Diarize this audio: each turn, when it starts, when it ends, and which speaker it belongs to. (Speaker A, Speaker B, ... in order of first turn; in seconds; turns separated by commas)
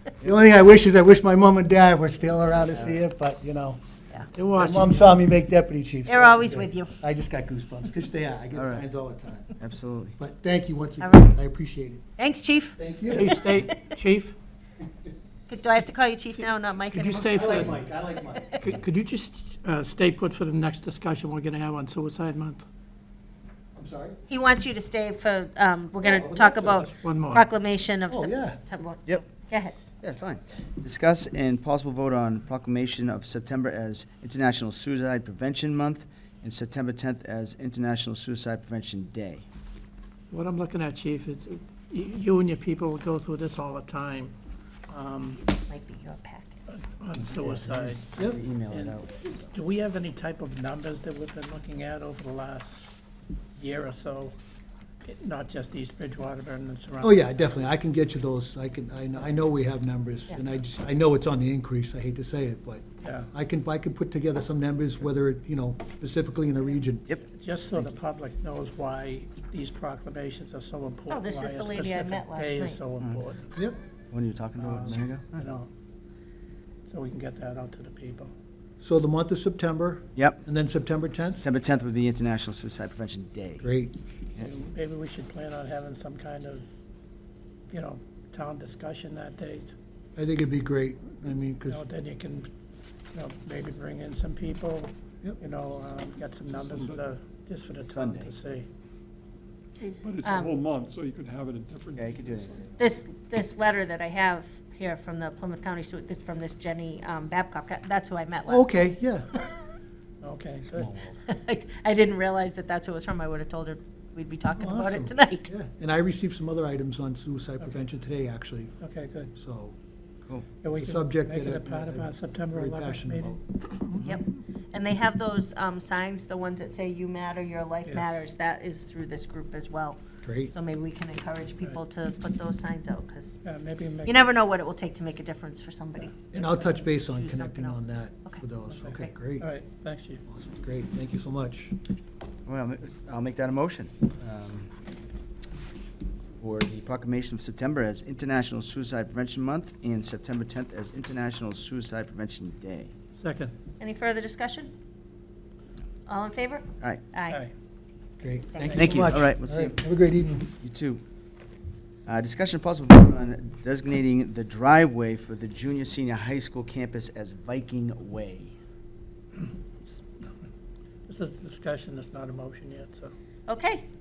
Speaker A: 0.2-3.8, Speaker B: 2.7-3.0, Speaker C: 4.3-5.2, Speaker A: 4.5-9.5, Speaker D: 6.0-7.0, Speaker B: 8.5-8.8, Speaker B: 9.6-10.2, Speaker A: 10.2-12.1, Speaker D: 11.0-11.3, Speaker D: 12.2-13.8, Speaker A: 12.8-13.4, Speaker C: 13.1-14.3, Speaker D: 15.5-17.7, Speaker C: 16.9-17.8, Speaker A: 17.3-18.7, Speaker D: 18.4-18.6, Speaker C: 18.7-22.6, Speaker A: 23.8-24.2, Speaker D: 24.3-29.8, Speaker A: 26.0-27.0, Speaker C: 27.0-27.4, Speaker A: 28.1-28.6, Speaker B: 30.0-39.4, Speaker C: 40.3-44.3, Speaker C: 44.9-45.4, Speaker D: 45.4-46.6, Speaker C: 46.7-49.0, Speaker B: 47.2-49.4, Speaker C: 49.5-53.0, Speaker C: 53.5-54.3, Speaker C: 55.0-57.5, Speaker A: 57.0-67.1, Speaker C: 63.0-63.3, Speaker C: 67.3-73.5, Speaker D: 71.1-72.8, Speaker B: 74.1-75.5, Speaker C: 74.6-75.7, Speaker C: 76.8-78.3, Speaker A: 78.8-81.5, Speaker B: 80.2-80.4, Speaker B: 81.4-83.7, Speaker A: 83.6-83.9, Speaker C: 84.4-86.7, Speaker C: 87.7-89.7, Speaker A: 90.2-91.8, Speaker C: 91.7-92.5, Speaker C: 93.1-98.7, Speaker E: 96.5-97.1, Speaker B: 97.8-98.3, Speaker D: 99.8-100.6, Speaker E: 100.0-102.7, Speaker B: 102.0-102.6, Speaker D: 102.8-108.8, Speaker A: 108.5-109.4, Speaker C: 110.2-110.9, Speaker B: 110.8-111.1, Speaker D: 111.2-115.5, Speaker A: 114.5-118.8, Speaker C: 118.8-119.3, Speaker A: 119.3-119.7, Speaker C: 120.6-124.0, Speaker A: 120.7-123.4, Speaker D: 124.0-130.0, Speaker C: 127.8-128.1, Speaker A: 130.2-130.5, Speaker D: 130.5-133.4, Speaker C: 133.4-134.3, Speaker D: 134.0-139.1, Speaker A: 136.3-139.5, Speaker C: 139.4-140.2, Speaker A: 140.2-141.8, Speaker B: 142.4-144.7, Speaker B: 146.4-152.9, Speaker C: 153.1-153.5, Speaker D: 153.8-154.7, Speaker D: 156.1-157.4, Speaker A: 158.2-160.5, Speaker D: 158.5-159.1, Speaker B: 158.7-159.8, Speaker B: 160.6-161.0, Speaker B: 162.1-168.5, Speaker C: 171.1-173.1, Speaker D: 173.5-173.8